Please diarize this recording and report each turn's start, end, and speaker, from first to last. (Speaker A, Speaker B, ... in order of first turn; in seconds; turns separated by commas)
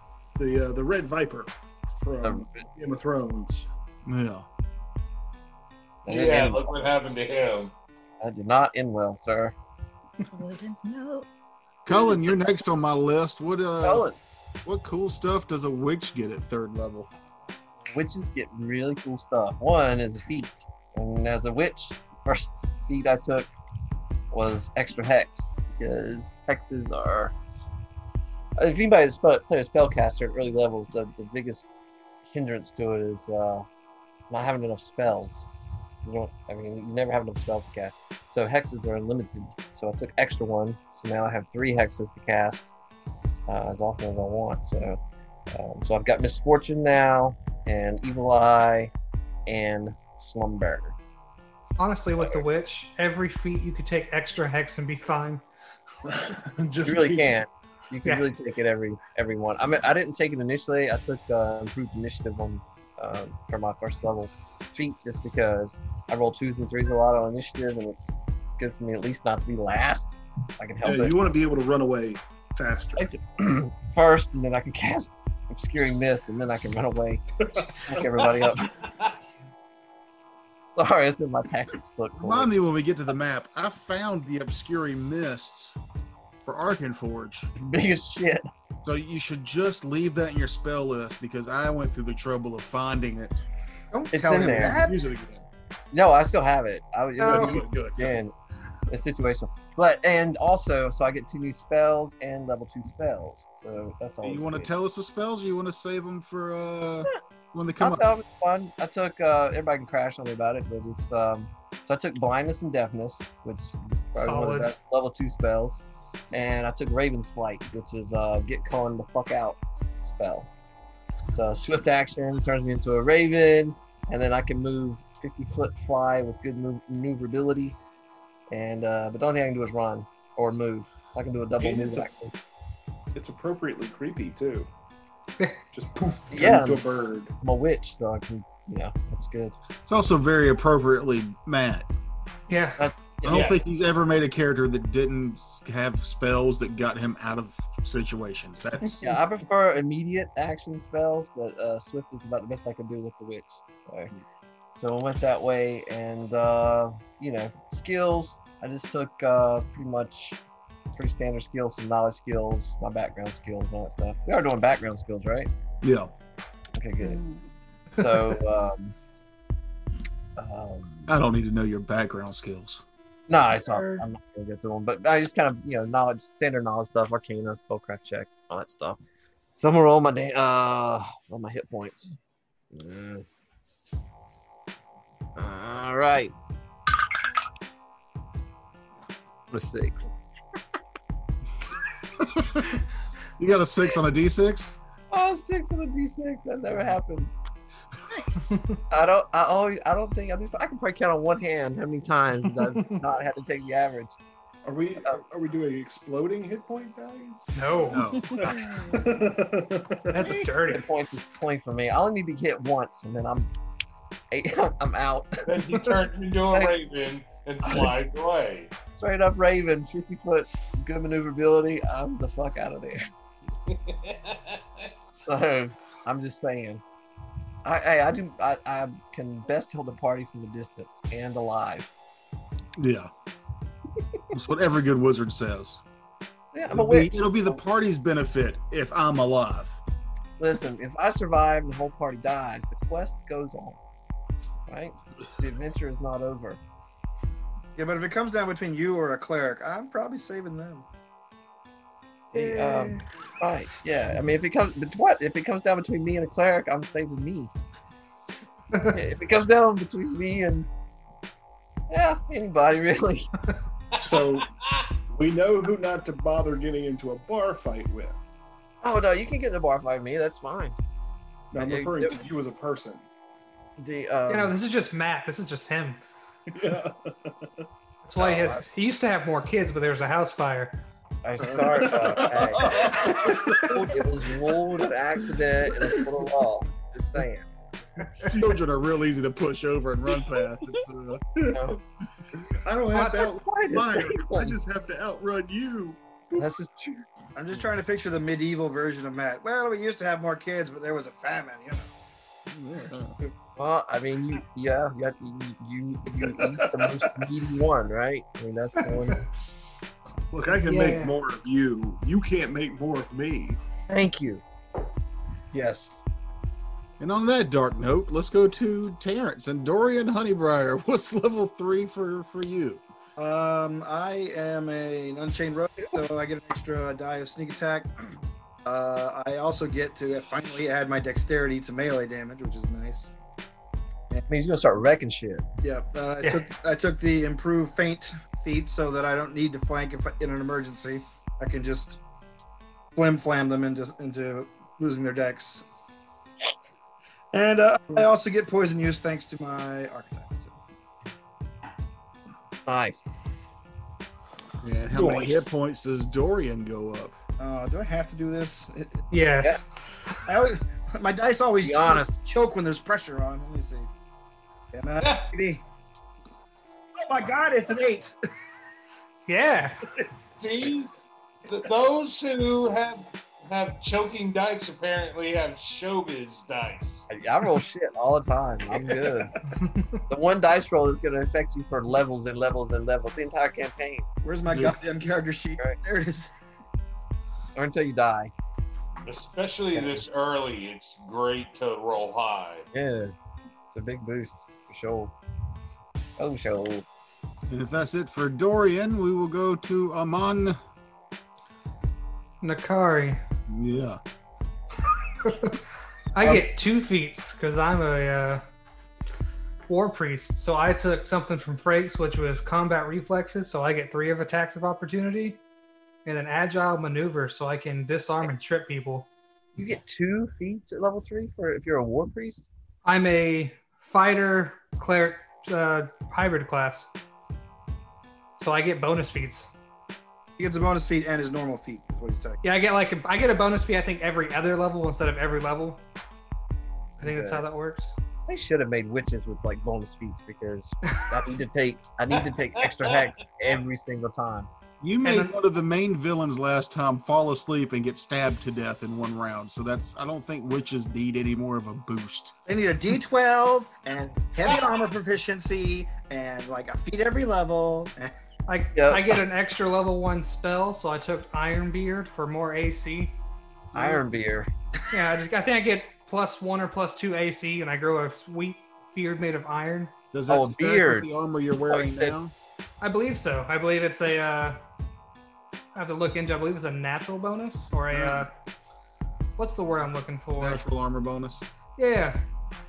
Speaker A: 0.4-3.7, Speaker B: 2.2-2.7, Speaker C: 4.1-4.5, Speaker B: 6.0-6.7, Speaker D: 6.1-7.7, Speaker B: 8.2-9.6, Speaker E: 10.3-11.3, Speaker C: 11.9-14.1, Speaker B: 13.8-14.2, Speaker C: 14.7-17.1, Speaker B: 17.9-23.5, Speaker B: 24.3-27.3, Speaker B: 28.6-31.7, Speaker B: 32.3-33.7, Speaker B: 34.3-35.5, Speaker B: 36.0-42.7, Speaker B: 43.5-45.0, Speaker B: 45.5-48.9, Speaker B: 49.5-51.0, Speaker F: 51.8-55.4, Speaker B: 52.2-52.4, Speaker A: 56.0-57.4, Speaker B: 56.8-71.2, Speaker A: 70.8-73.1, Speaker B: 73.0-78.7, Speaker A: 77.5-77.9, Speaker B: 80.8-82.6, Speaker C: 82.2-85.8, Speaker C: 86.4-87.5, Speaker B: 87.6-88.5, Speaker C: 88.8-93.4, Speaker G: 93.9-95.0, Speaker B: 94.1-94.8, Speaker C: 94.4-95.4, Speaker A: 94.6-95.1, Speaker B: 95.9-98.3, Speaker F: 97.2-97.5, Speaker A: 97.3-97.6, Speaker C: 97.3-98.1, Speaker B: 98.9-104.7, Speaker C: 104.2-108.1, Speaker B: 107.8-120.5, Speaker F: 114.2-114.7, Speaker B: 121.3-127.8, Speaker B: 128.5-132.3, Speaker A: 131.6-132.1, Speaker A: 133.2-134.7, Speaker A: 135.7-137.3, Speaker B: 136.3-136.9, Speaker B: 137.4-139.6, Speaker C: 139.9-141.9, Speaker F: 142.5-142.8, Speaker B: 142.8-143.6, Speaker C: 143.2-149.2, Speaker D: 143.3-143.6, Speaker B: 149.0-154.1, Speaker B: 154.7-160.4, Speaker B: 160.9-165.5, Speaker C: 165.8-166.1, Speaker B: 166.8-167.2, Speaker E: 167.0-167.4, Speaker B: 167.9-168.9, Speaker B: 170.4-171.2, Speaker C: 171.1-172.8, Speaker B: 173.3-179.0, Speaker F: 173.7-174.0, Speaker B: 179.6-182.2, Speaker B: 182.7-183.2, Speaker B: 185.4-186.3, Speaker B: 189.5-190.1, Speaker C: 192.2-192.8, Speaker C: 193.4-194.8, Speaker B: 195.1-197.3, Speaker E: 198.1-198.6, Speaker B: 198.9-204.2, Speaker A: 204.7-210.3, Speaker F: 207.5-208.1, Speaker C: 207.9-208.6, Speaker E: 208.4-209.0, Speaker F: 210.1-210.9, Speaker B: 210.2-213.5, Speaker B: 214.3-215.9, Speaker D: 215.5-218.7, Speaker B: 217.6-217.9, Speaker B: 219.0-223.1, Speaker D: 223.7-224.6, Speaker B: 225.2-226.8, Speaker B: 227.6-231.9, Speaker C: 232.8-233.1, Speaker C: 234.3-235.8, Speaker B: 236.5-237.6, Speaker C: 236.7-239.8, Speaker B: 240.4-243.8, Speaker B: 244.7-246.6, Speaker G: 247.8-250.8, Speaker B: 252.3-257.5, Speaker F: 252.4-253.0, Speaker B: 258.9-260.7, Speaker B: 261.9-263.3, Speaker D: 263.9-264.9, Speaker A: 264.0-264.5, Speaker A: 265.1-268.2, Speaker B: 268.8-270.8, Speaker A: 271.5-273.0, Speaker B: 271.5-272.2, Speaker B: 273.8-274.6, Speaker F: 274.3-276.0, Speaker A: 276.5-277.6, Speaker F: 278.0-280.8, Speaker B: 278.2-278.7, Speaker B: 281.2-287.5, Speaker A: 281.4-284.4, Speaker A: 285.7-286.2, Speaker A: 288.2-288.6, Speaker C: 288.2-291.2, Speaker A: 291.4-291.7, Speaker B: 291.5-291.8, Speaker A: 292.4-296.5, Speaker F: 292.9-293.3, Speaker B: 293.3-294.6, Speaker B: 296.4-297.0, Speaker G: 297.4-301.9, Speaker C: 302.5-303.1, Speaker B: 303.6-309.2, Speaker A: 310.3-313.6, Speaker F: 310.5-311.2, Speaker B: 313.9-314.4, Speaker B: 315.5-316.0, Speaker C: 317.0-322.8, Speaker G: 323.2-327.9, Speaker G: 328.6-333.2, Speaker B: 334.3-335.4, Speaker G: 335.6-342.0, Speaker G: 342.9-345.6, Speaker G: 347.3-350.5, Speaker B: 352.7-353.1, Speaker C: 354.6-357.2, Speaker A: 354.9-355.5, Speaker G: 357.4-359.0, Speaker F: 359.1-359.6, Speaker G: 360.3-363.9, Speaker B: 361.6-362.1, Speaker G: 364.7-365.6, Speaker D: 365.0-365.3, Speaker G: 367.0-368.1, Speaker F: 369.3-369.8, Speaker D: 370.4-377.1, Speaker B: 377.1-379.3, Speaker F: 379.6-380.0, Speaker B: 380.1-384.1, Speaker G: 384.2-386.4, Speaker C: 384.5-384.8, Speaker B: 387.6-388.3, Speaker D: 389.1-392.7, Speaker B: 389.7-390.0, Speaker B: 392.7-393.1, Speaker B: 393.7-395.1, Speaker B: 396.2-396.9, Speaker C: 397.5-400.6, Speaker F: 402.4-403.2, Speaker C: 403.5-404.0, Speaker F: 405.2-405.6, Speaker F: 406.1-408.4, Speaker B: 406.2-406.5, Speaker F: 409.7-415.4, Speaker F: 416.1-419.1, Speaker B: 419.6-422.5, Speaker F: 422.9-426.9, Speaker F: 428.4-429.5, Speaker G: 430.4-432.4, Speaker F: 432.4-435.8, Speaker B: 437.0-437.5, Speaker F: 437.0-437.9, Speaker B: 438.3-444.5, Speaker D: 442.1-443.1, Speaker C: 444.8-452.4, Speaker F: 445.0-445.4, Speaker G: 452.5-458.1, Speaker F: 458.5-463.2, Speaker B: 458.7-459.2, Speaker B: 463.7-464.5, Speaker C: 463.7-464.0, Speaker F: 464.9-469.9, Speaker C: 470.1-472.3, Speaker B: 470.3-471.1, Speaker B: 471.7-472.2, Speaker F: 472.8-474.6, Speaker F: 475.7-478.3, Speaker C: 477.9-478.2, Speaker F: 479.4-480.6, Speaker C: 480.4-481.5, Speaker F: 481.8-482.2